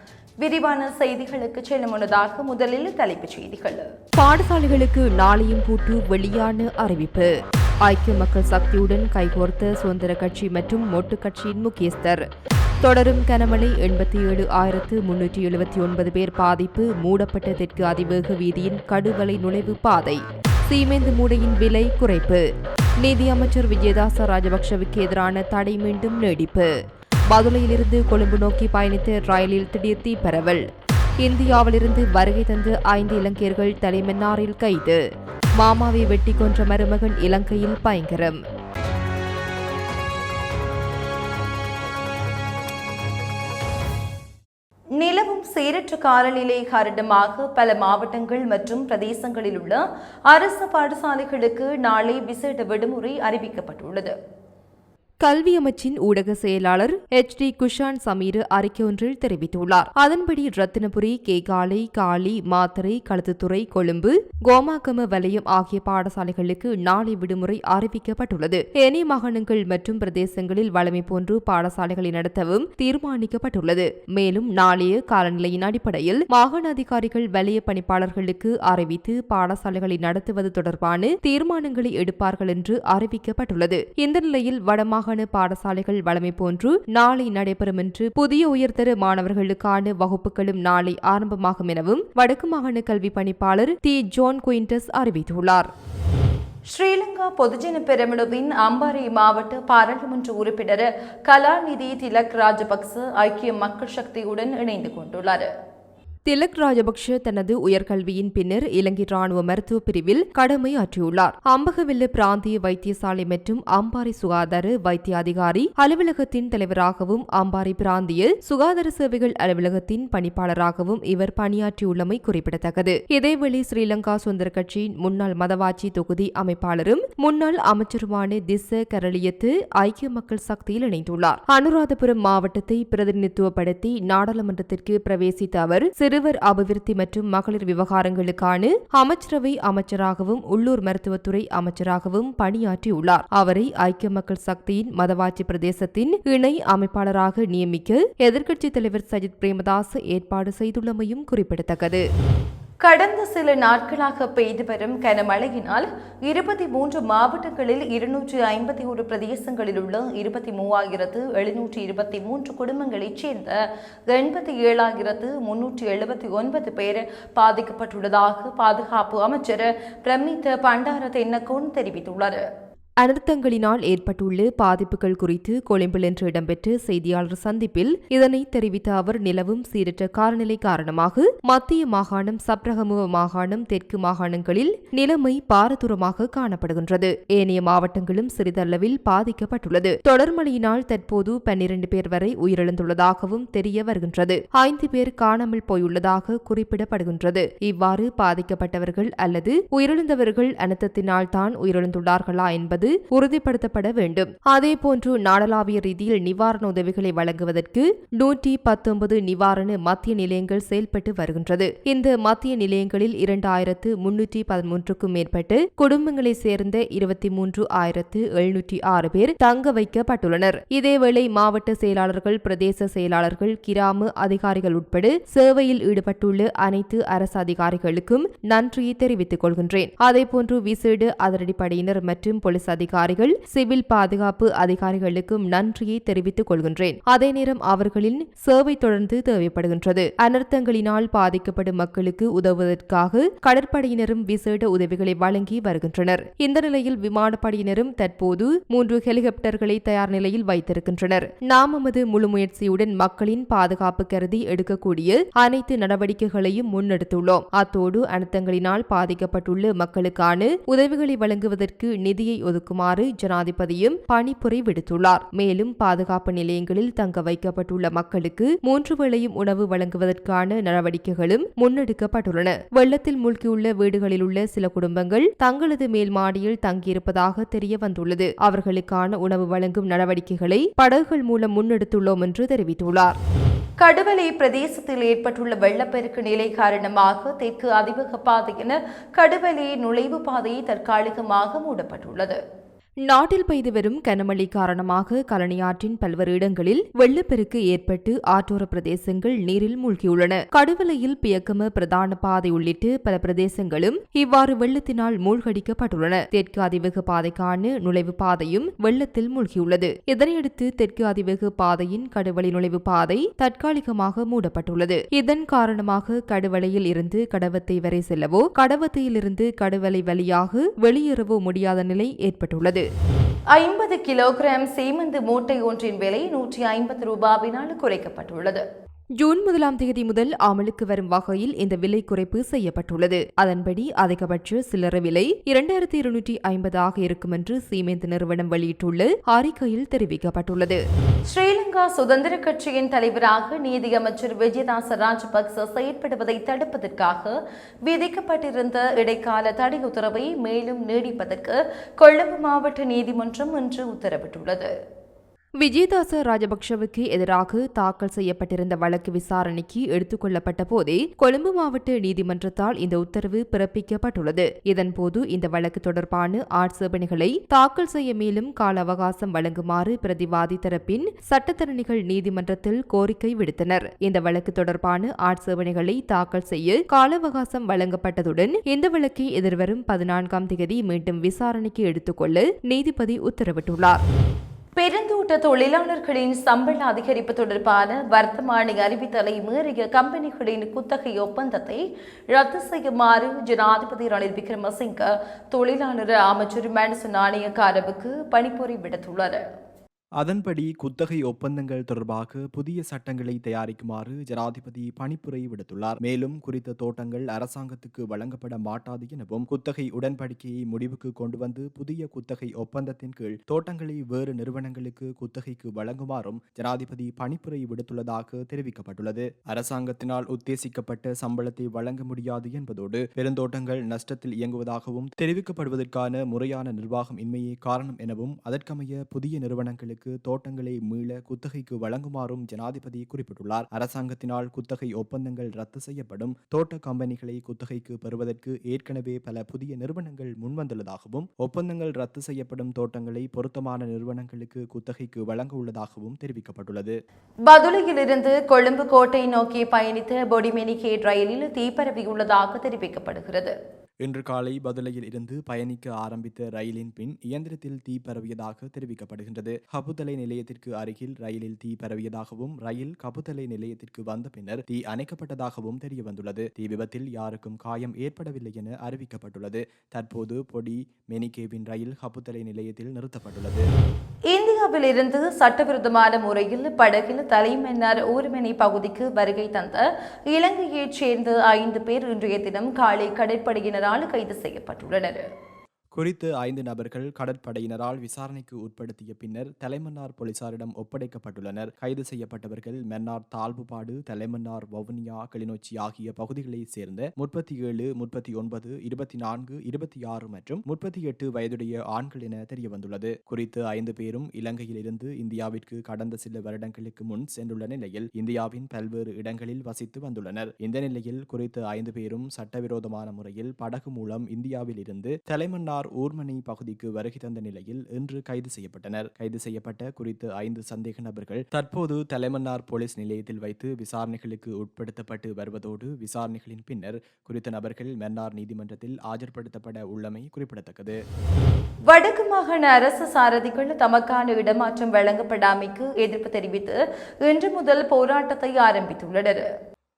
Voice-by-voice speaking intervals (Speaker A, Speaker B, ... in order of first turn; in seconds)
Speaker A: 0.4-3.8, 45.0-54.1, 96.7-105.5, 152.8-163.6, 164.1-172.4, 283.8-292.4, 323.5-328.6, 341.3-347.3, 347.9-354.7, 384.8-399.4, 447.5-453.5, 474.3-485.2, 531.9-539.4
Speaker B: 4.2-7.3, 7.8-12.2, 12.8-22.4, 23.0-26.7, 27.3-30.6, 31.2-35.0, 35.6-38.4, 55.2-95.7, 106.3-152.0, 173.0-283.2, 293.1-322.9, 329.2-340.8, 355.6-384.0
Speaker C: 400.2-446.9, 454.0-473.6, 486.0-531.0